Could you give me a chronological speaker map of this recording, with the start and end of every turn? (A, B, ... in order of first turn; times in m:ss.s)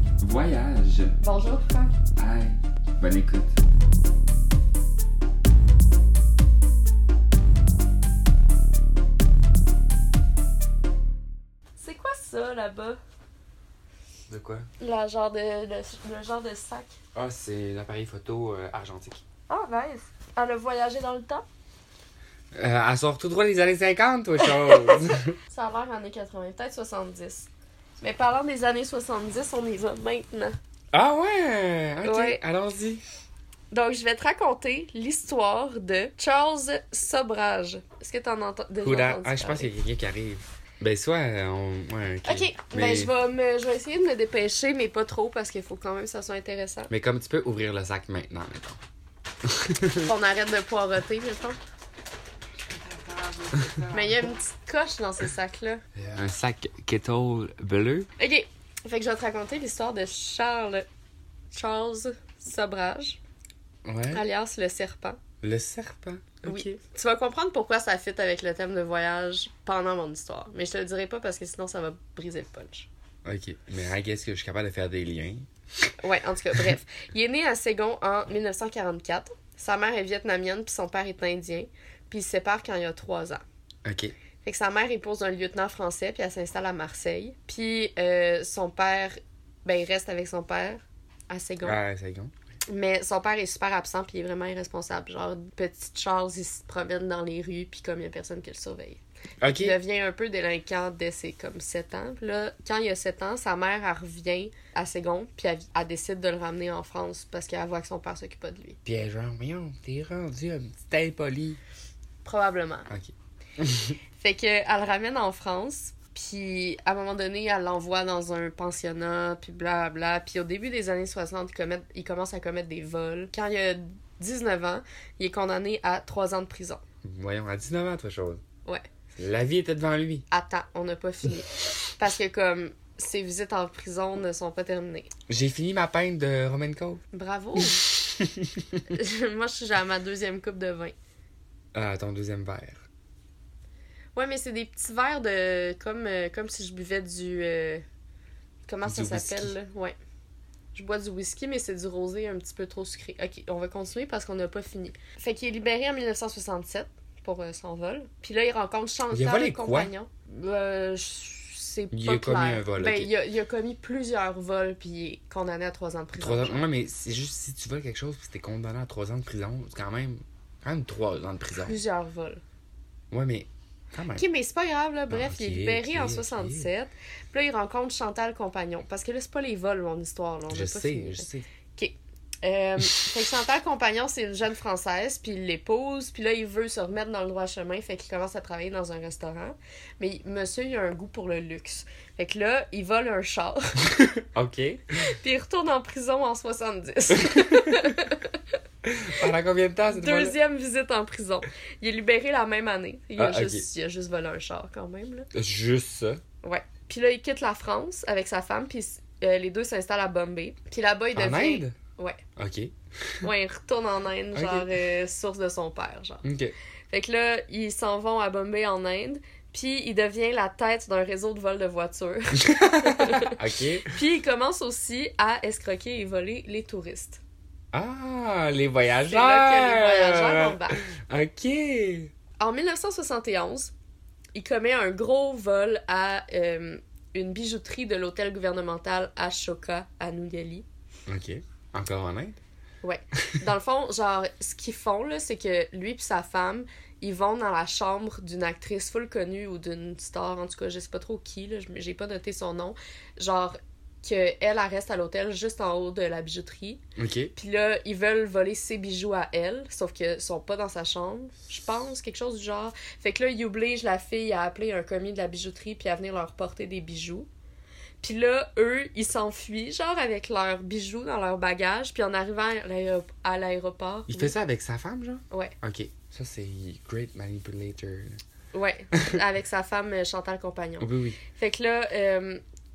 0:00.2-0:01.2 A
0:01.2-0:01.9 B
0:02.2-0:03.6 A
0:11.8-0:13.0 B
0:14.3-0:14.7 A
0:14.8-0:17.0 B
0:17.2-0:19.2 A
0:19.5-0:21.4 B
0:22.6-0:25.4 A
0:24.4-0:27.5 B
0:28.0-0:30.6 B
0:30.9-0:33.0 A
0:32.0-0:32.4 B
0:33.7-0:39.7 B
0:38.8-0:43.1 A
0:42.3-0:46.9 B
0:46.9-0:48.8 A
0:49.4-0:50.1 A
0:50.0-0:51.6 B
0:52.6-0:54.3 A
0:53.9-0:55.8 B
0:56.0-0:58.1 A
0:58.2-1:00.9 B
1:01.5-1:03.2 B
1:03.8-1:04.2 A
1:04.1-1:05.2 B
1:05.4-1:06.7 A
1:06.4-1:12.9 B
1:13.2-1:15.5 A
1:16.0-1:23.4 B
1:23.8-1:24.1 A
1:24.4-1:31.8 B
1:31.6-1:32.3 A
1:32.7-1:48.8 B
1:39.4-1:39.8 A
1:48.9-1:51.6 A
1:52.2-1:52.9 B
1:52.9-1:54.0 A
1:54.2-2:06.8 B
2:07.0-2:08.4 A
2:09.2-2:10.2 A
2:10.3-2:15.1 B
2:15.3-2:17.0 A
2:17.1-2:17.8 B
2:17.6-2:18.8 A
2:18.9-2:21.0 B
2:21.7-2:22.8 A
2:24.2-2:27.8 B
2:28.7-2:30.0 B
2:28.8-2:29.5 A
2:30.7-2:46.6 B
2:39.1-2:39.9 A
2:41.9-2:43.1 A
2:46.2-2:51.8 A
2:51.6-2:52.4 B
2:53.1-2:54.2 A
2:54.2-3:13.9 B
2:55.1-2:56.7 A
3:00.5-3:01.4 A
3:14.0-3:15.0 A
3:15.2-3:18.4 B
3:17.1-3:18.0 A
3:18.8-3:20.4 A
3:19.9-3:25.3 B
3:23.2-3:23.6 A
3:25.3-3:26.2 A
3:26.4-3:32.2 B
3:31.2-3:31.8 A
3:32.4-3:33.3 A
3:33.2-3:36.2 B
3:34.4-3:34.7 A
3:36.2-3:36.6 A
3:36.9-3:47.2 B
3:42.4-3:43.9 A
3:47.7-3:52.1 A
3:49.1-3:50.8 B
3:52.4-3:53.7 B
3:54.4-4:00.7 B
4:01.1-4:02.4 A
4:02.8-4:16.8 B
4:17.0-4:17.3 A
4:17.4-4:27.3 B
4:28.0-4:34.3 B
4:34.1-4:38.2 A
4:38.5-4:42.4 B
4:40.8-4:41.2 A